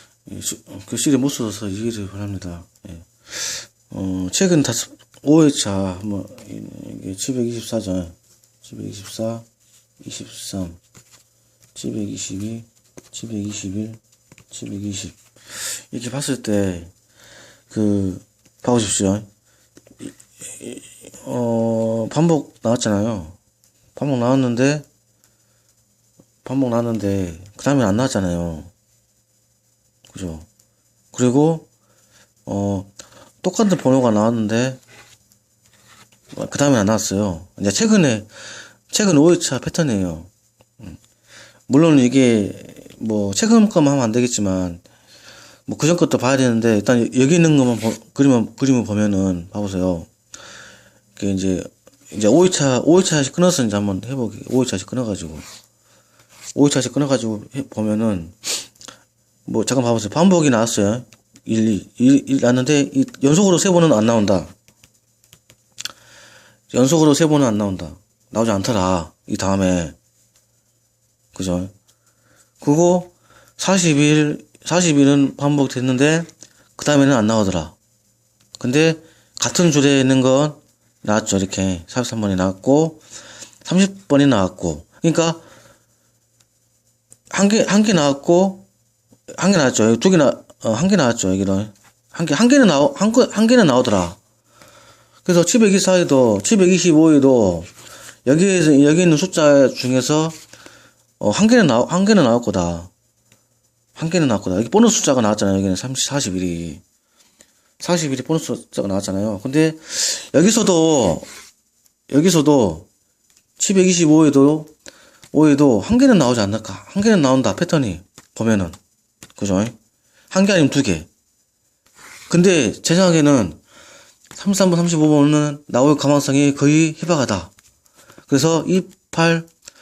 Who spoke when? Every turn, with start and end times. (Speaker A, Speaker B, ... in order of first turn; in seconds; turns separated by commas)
Speaker A: 0.3-9.4, Speaker A: 10.0-10.8, Speaker A: 11.8-14.0, Speaker A: 14.5-16.9, Speaker A: 17.7-19.3, Speaker A: 20.0-23.4, Speaker A: 23.9-24.9, Speaker A: 26.4-28.7, Speaker A: 30.1-30.5, Speaker A: 31.1-31.7, Speaker A: 32.5-34.8, Speaker A: 36.3-38.3, Speaker A: 38.9-41.0, Speaker A: 41.7-44.8, Speaker A: 45.7-50.1, Speaker A: 51.2-55.4, Speaker A: 56.5-58.7, Speaker A: 59.5-64.5, Speaker A: 66.7-70.0, Speaker A: 71.3-71.7, Speaker A: 72.6-77.8, Speaker A: 78.6-83.0, Speaker A: 83.6-85.4, Speaker A: 87.3-88.7, Speaker A: 89.4-94.2, Speaker A: 95.2-97.7, Speaker A: 98.3-100.4, Speaker A: 101.2-102.9, Speaker A: 104.0-106.8, Speaker A: 107.8-111.3, Speaker A: 112.1-112.9, Speaker A: 113.6-114.7, Speaker A: 115.3-118.8, Speaker A: 119.4-119.8, Speaker A: 120.3-121.1, Speaker A: 122.3-123.6, Speaker A: 124.3-127.5, Speaker A: 128.3-129.5